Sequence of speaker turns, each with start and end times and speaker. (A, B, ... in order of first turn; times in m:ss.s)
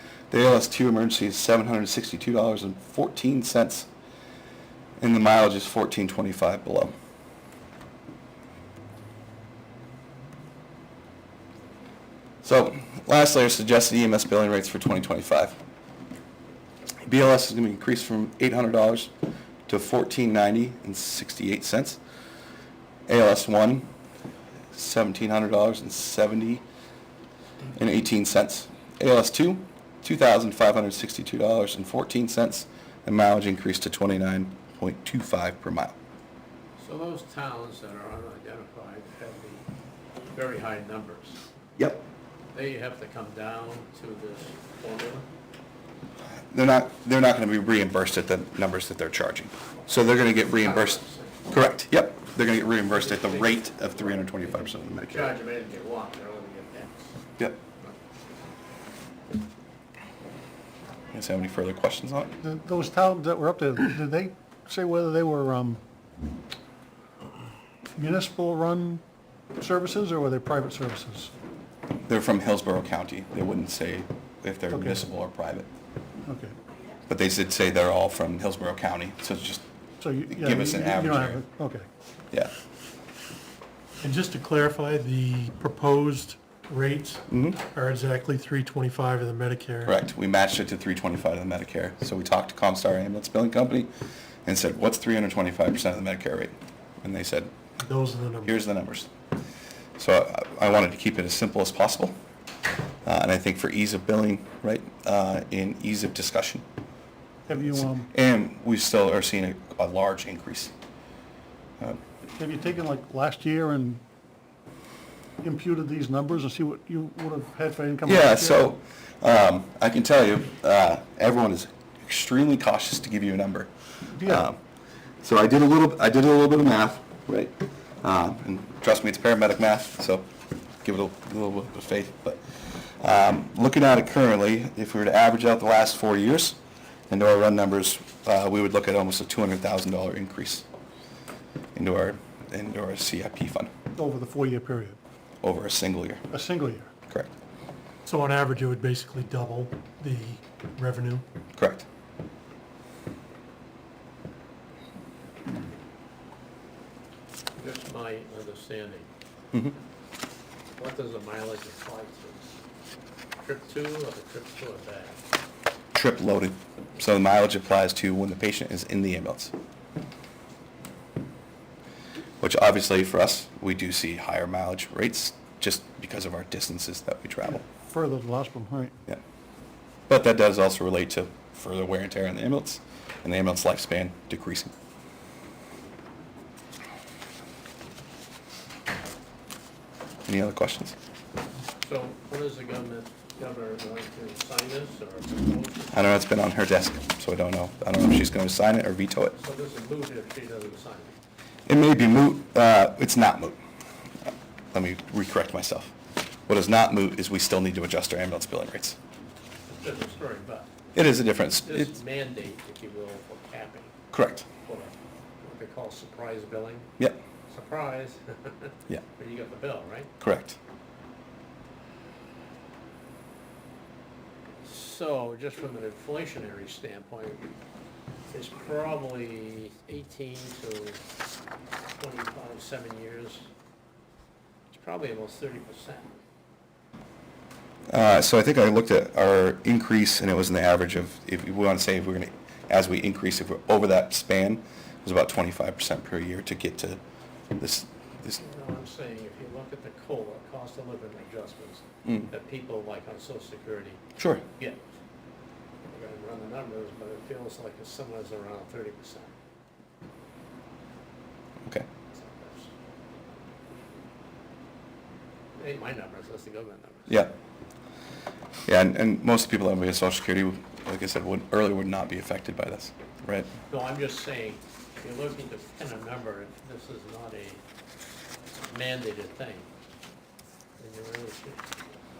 0:00.3-0:03.9 A
0:05.0-0:06.9 A
0:12.4-0:15.6 A
0:17.0-0:19.1 A
0:19.7-0:22.0 A
0:23.1-0:23.9 A
0:24.7-0:26.6 A
0:27.8-0:35.9 A
0:36.8-0:39.6 B
0:40.3-0:41.4 B
0:42.5-0:45.3 B
0:46.5-0:55.3 A
0:50.4-0:51.5 B
0:52.9-0:57.2 B
1:01.1-1:02.3 A
1:02.4-1:05.8 C
1:07.9-1:09.0 C
1:09.6-1:11.3 C
1:12.1-1:15.7 A
1:14.7-1:15.0 C
1:16.2-1:16.6 C
1:17.1-1:19.6 A
1:20.0-1:21.8 C
1:20.3-1:21.4 A
1:24.0-1:29.9 D
1:27.3-1:27.6 A
1:29.8-1:33.9 A
1:34.4-1:37.5 A
1:37.8-1:38.5 D
1:38.4-1:39.1 A
1:40.0-1:42.1 A
1:43.0-1:46.6 A
1:47.5-1:48.1 C
1:47.5-1:50.7 A
1:52.4-1:54.0 C
1:55.4-1:58.6 C
1:58.0-2:04.6 A
2:04.2-2:04.4 C
2:05.2-2:10.3 A
2:10.8-2:16.6 A
2:17.1-2:20.6 A
2:21.7-2:23.7 A
2:23.9-2:25.0 C
2:25.4-2:26.2 A
2:26.3-2:26.9 C
2:28.0-2:31.2 D
2:31.6-2:31.8 A
2:37.6-2:39.1 B
2:40.8-2:42.5 B
2:43.4-2:45.2 B
2:45.9-2:49.5 A
2:52.4-2:57.6 A
2:57.5-2:58.9 C
3:00.1-3:04.7 A
3:10.3-3:11.0 A
3:11.8-3:16.0 B
3:15.9-3:19.4 A
3:19.4-3:21.2 B
3:21.7-3:23.6 A
3:24.7-3:25.9 A
3:26.5-3:29.0 A
3:29.7-3:30.7 B
3:30.9-3:31.9 A
3:31.6-3:34.0 B
3:34.1-3:34.5 A
3:34.6-3:36.9 B
3:37.5-3:40.1 B
3:40.2-3:40.6 A
3:44.6-3:47.4 B
3:48.3-3:51.0 B
3:52.0-3:53.5 B
3:54.7-3:56.2 B
3:57.9-4:07.0 A
4:07.5-4:08.4 A
4:08.4-4:14.0 B
4:14.2-4:14.4 A
4:14.6-4:14.8 B
4:15.9-4:19.3 B
4:22.1-4:22.7 B
4:25.6-4:27.2 B
4:28.6-4:33.5 A
4:33.7-4:37.6 B
4:38.6-4:39.7 B
4:40.8-4:41.8 B